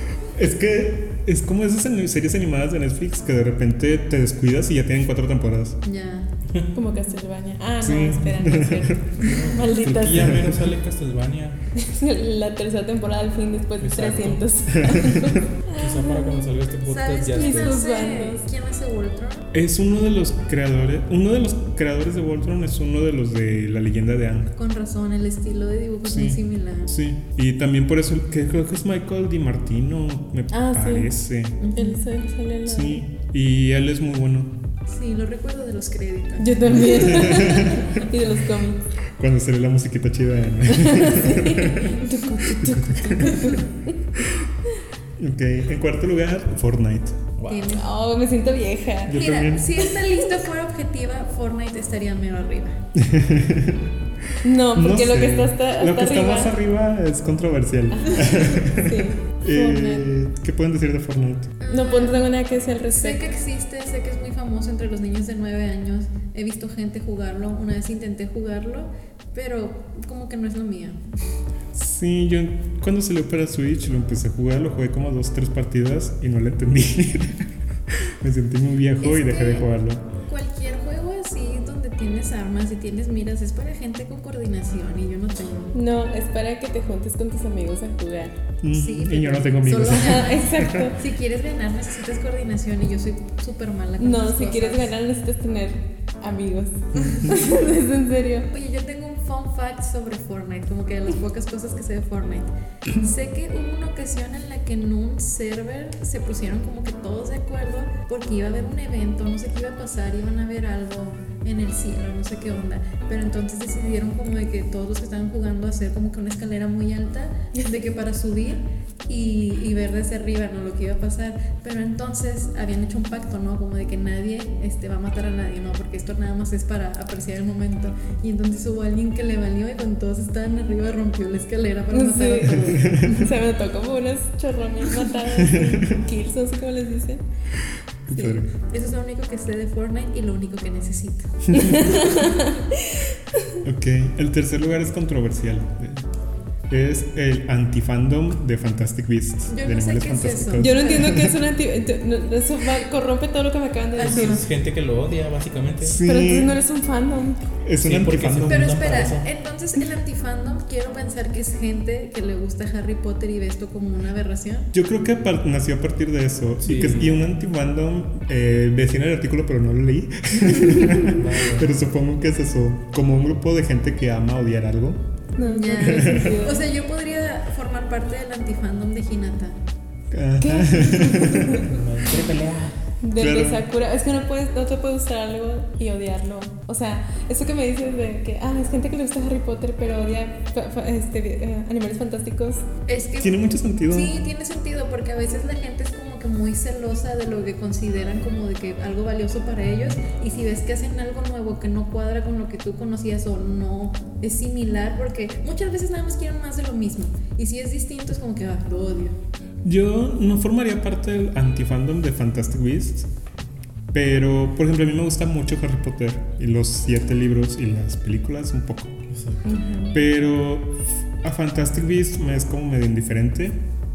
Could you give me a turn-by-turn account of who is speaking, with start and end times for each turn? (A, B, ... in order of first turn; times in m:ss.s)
0:00.3-0:05.8 A
0:05.8-0:06.3 B
0:06.7-0:10.4 C
0:07.8-0:09.2 A
0:09.2-0:11.6 D
0:10.1-0:10.6 A
0:11.8-0:16.5 C
0:13.8-0:14.5 D
0:14.8-0:15.4 A
0:15.8-0:17.8 D
0:16.9-0:19.5 B
0:17.4-0:18.4 C
0:19.5-0:24.5 A
0:24.6-0:27.0 B
0:26.0-0:31.6 A
0:30.5-0:31.1 C
0:31.6-0:32.1 B
0:31.8-0:33.0 C
0:32.7-0:34.6 A
0:34.9-0:37.7 B
0:36.4-0:38.9 C
0:36.9-0:38.0 A
0:39.2-0:42.0 A
0:40.7-0:43.9 C
0:42.6-0:43.6 A
0:43.3-0:43.6 B
0:45.2-0:47.3 A
0:47.4-0:47.8 D
0:47.5-0:47.9 B
0:47.7-0:49.3 C
0:49.1-0:49.9 A
0:49.1-0:52.8 B
0:53.0-0:53.9 A
0:54.4-0:56.5 C
0:54.7-1:01.5 A
0:57.9-1:00.1 C
1:01.6-1:02.2 B
1:01.7-1:03.3 C
1:02.9-1:11.0 B
1:11.7-1:20.1 A
1:19.0-1:19.7 B
1:20.3-1:25.7 B
1:25.7-1:28.3 C
1:28.6-1:30.9 A
1:28.7-1:34.9 B
1:29.9-1:31.0 C
1:34.0-1:38.5 C
1:38.5-2:13.3 B
2:11.9-2:17.2 C
2:12.7-2:13.2 A
2:15.4-2:16.0 A
2:18.1-2:18.5 A
2:18.1-2:18.4 C
2:18.6-2:22.2 B
2:21.5-2:21.9 A
2:21.6-2:23.6 C
2:23.6-2:26.1 A
2:26.7-2:31.4 A
2:29.5-2:31.2 B
2:30.6-2:34.4 C
2:34.0-2:34.4 B
2:34.0-2:36.0 D
2:35.8-2:36.6 A
2:36.0-2:37.5 C
2:37.6-2:38.8 A
2:37.8-2:39.3 D
2:38.5-2:44.7 B
2:44.7-2:55.0 A
2:46.6-2:47.2 D
2:51.1-2:51.7 D
2:55.4-2:56.6 C
2:55.4-2:59.6 B
2:55.8-2:56.4 A
3:00.1-3:01.7 A
3:00.4-3:01.7 C
3:01.6-3:02.9 D
3:03.0-3:12.6 C
3:03.2-3:03.6 A
3:12.9-3:29.2 B
3:13.2-3:14.1 A
3:29.6-3:33.1 A
3:33.9-3:39.0 A
3:39.1-3:39.4 D
3:39.4-3:40.0 C
3:39.9-3:43.6 A